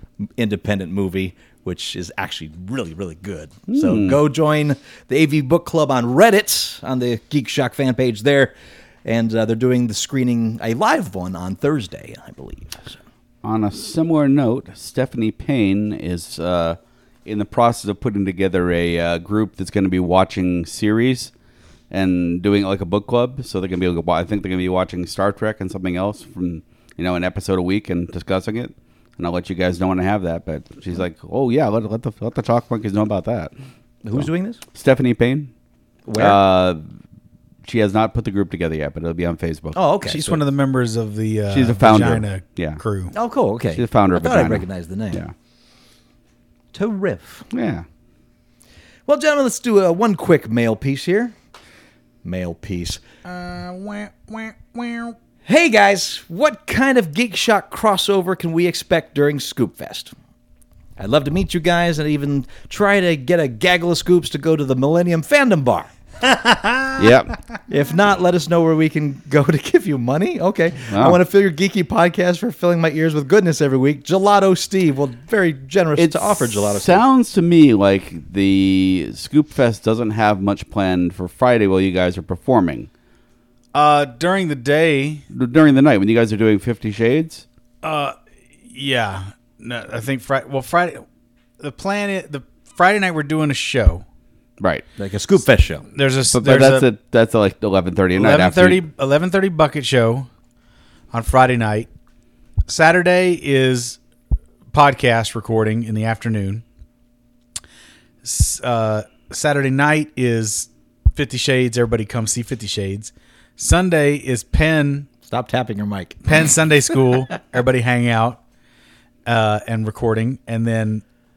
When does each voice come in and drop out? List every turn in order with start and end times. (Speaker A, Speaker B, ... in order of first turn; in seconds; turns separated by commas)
Speaker A: 0.4-8.5, Speaker B: 3.7-4.2, Speaker A: 9.0-13.0, Speaker B: 13.4-21.3, Speaker B: 21.9-33.5, Speaker A: 34.0-34.6, Speaker B: 34.1-35.5, Speaker A: 36.0-36.4, Speaker B: 36.2-36.8, Speaker B: 37.6-39.8, Speaker A: 39.7-40.4, Speaker C: 40.0-43.1, Speaker B: 41.5-42.8, Speaker A: 43.1-45.2, Speaker B: 43.7-45.3, Speaker A: 46.7-47.5, Speaker B: 47.5-47.8, Speaker A: 49.0-51.3, Speaker A: 52.2-53.0, Speaker C: 53.2-55.1, Speaker A: 55.4-60.1, Speaker A: 61.0-65.9, Speaker C: 66.2-67.1, Speaker B: 67.0-67.3, Speaker A: 67.7-77.0, Speaker B: 70.9-71.2, Speaker B: 76.0-82.9, Speaker C: 83.7-85.2, Speaker B: 85.3-87.4, Speaker C: 87.8-88.2, Speaker C: 88.7-91.0, Speaker C: 91.6-94.0, Speaker B: 94.6-94.8, Speaker A: 95.0-95.9, Speaker C: 95.9-96.9, Speaker B: 96.3-98.8, Speaker C: 98.1-100.3, Speaker C: 101.1-101.9, Speaker C: 102.7-104.0, Speaker C: 104.7-106.6, Speaker C: 108.2-115.1, Speaker A: 115.2-116.5, Speaker C: 116.2-118.4, Speaker C: 119.2-121.0